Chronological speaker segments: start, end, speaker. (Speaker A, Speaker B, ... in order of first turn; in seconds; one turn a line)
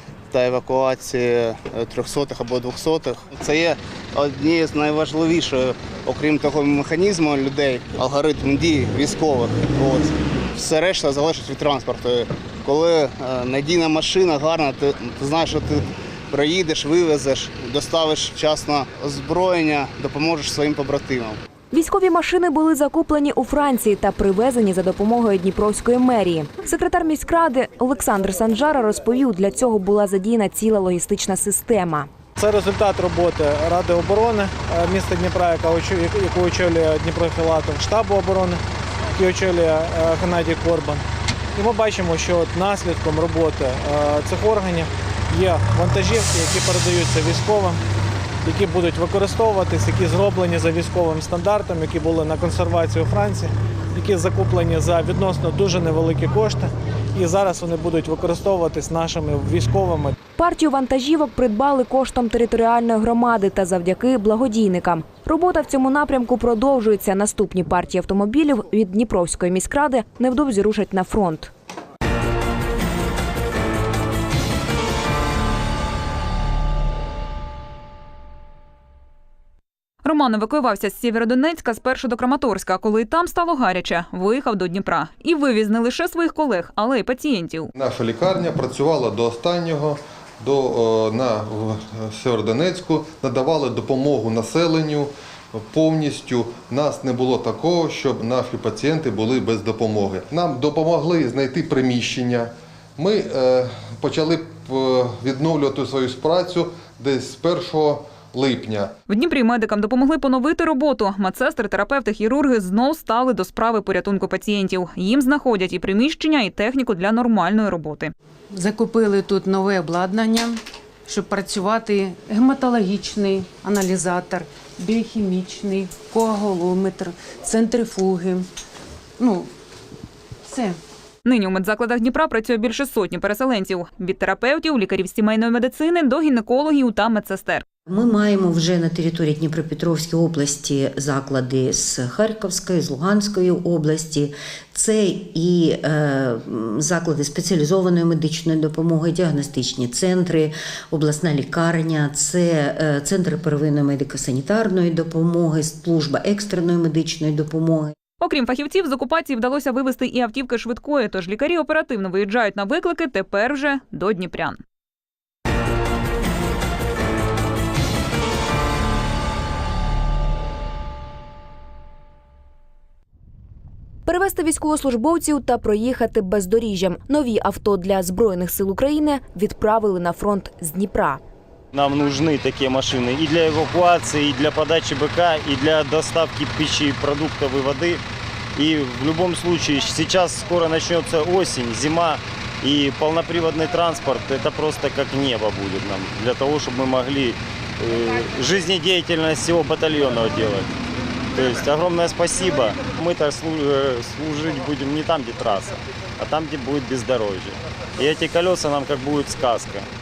Speaker A: 0.3-21.4
Speaker B: 21.7-32.1
Speaker C: 32.4-38.6
Speaker C: 39.2-41.0
Speaker C: 41.5-47.8
Speaker C: 48.4-60.1
Speaker B: 60.4-71.5
Speaker D: 80.0-87.7
Speaker E: 87.7-108.9
Speaker D: 109.1-118.1
Speaker F: 118.5-128.5
Speaker F: 129.2-129.5
Speaker F: 130.5-130.8
Speaker D: 131.2-137.6
Speaker G: 137.9-157.9
Speaker D: 158.2-164.6
Speaker B: 174.1-181.2
Speaker H: 181.7-188.0
Speaker H: 188.6-200.7
Speaker H: 201.3-209.9